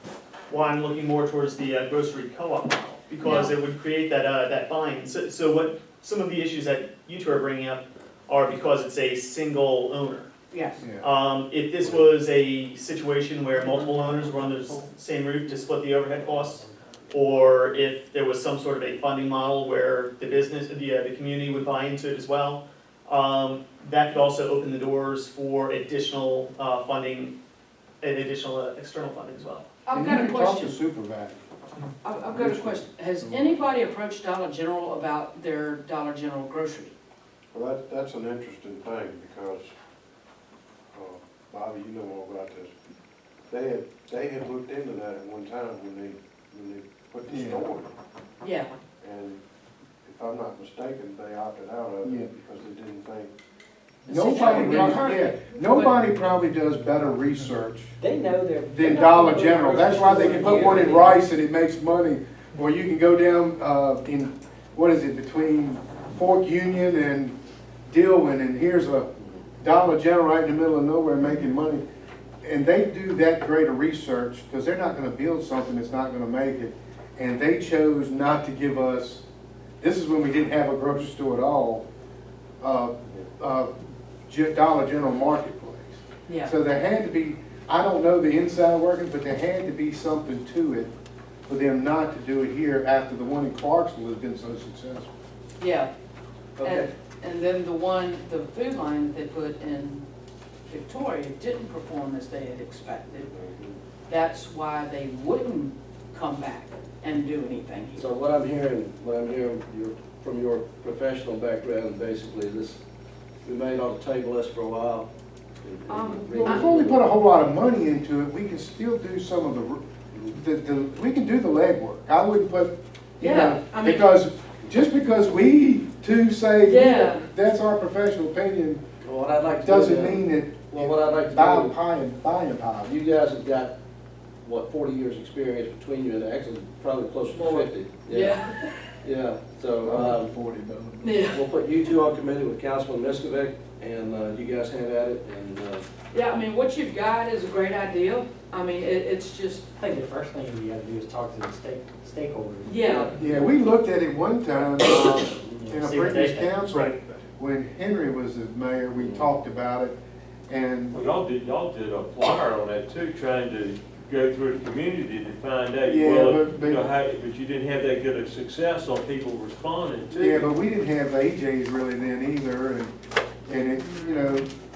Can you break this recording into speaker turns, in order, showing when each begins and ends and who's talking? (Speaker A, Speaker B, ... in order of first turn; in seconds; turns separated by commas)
Speaker A: 0.5-10.3, Speaker B: 3.2-3.5, Speaker B: 10.5-10.8, Speaker A: 11.0-27.3, Speaker A: 28.0-29.6, Speaker B: 29.8-30.8, Speaker C: 29.9-31.4, Speaker B: 32.0-36.9, Speaker C: 32.3-33.4, Speaker D: 37.5-39.7, Speaker D: 40.9-42.7, Speaker D: 43.5-47.9, Speaker C: 47.3-47.6, Speaker B: 48.4-48.7, Speaker D: 49.0-49.4, Speaker D: 50.0-53.3, Speaker C: 52.0-52.3, Speaker B: 54.1-55.9, Speaker C: 54.1-58.0, Speaker E: 58.0-61.1, Speaker C: 58.7-67.3, Speaker C: 67.9-69.1, Speaker C: 69.6-71.8, Speaker C: 72.4-79.2, Speaker C: 79.8-81.8, Speaker C: 82.6-83.7, Speaker C: 84.2-90.9, Speaker B: 86.3-86.5, Speaker C: 91.5-95.1, Speaker B: 95.6-95.9, Speaker F: 96.6-96.9, Speaker B: 96.6-100.0, Speaker B: 100.7-103.3, Speaker D: 103.2-103.7, Speaker B: 104.0-108.0, Speaker F: 107.9-112.8, Speaker F: 113.4-115.1, Speaker F: 115.6-117.0, Speaker B: 115.9-116.7, Speaker C: 116.3-128.8, Speaker B: 123.2-124.1, Speaker B: 126.6-127.3, Speaker F: 129.0-131.8, Speaker C: 129.6-132.9, Speaker F: 132.8-133.7, Speaker F: 134.4-138.4, Speaker B: 138.1-138.9, Speaker F: 139.0-140.4, Speaker C: 139.8-141.0, Speaker B: 141.0-141.4, Speaker F: 141.3-145.8, Speaker B: 146.1-149.7, Speaker E: 149.8-152.8, Speaker B: 152.6-153.1, Speaker C: 153.1-159.9, Speaker A: 154.8-155.4, Speaker E: 155.4-156.6, Speaker A: 156.7-157.0, Speaker F: 158.9-159.3, Speaker C: 160.5-160.9, Speaker G: 160.9-170.5, Speaker C: 165.8-166.8, Speaker C: 170.1-172.9, Speaker C: 173.5-174.5, Speaker B: 173.9-174.2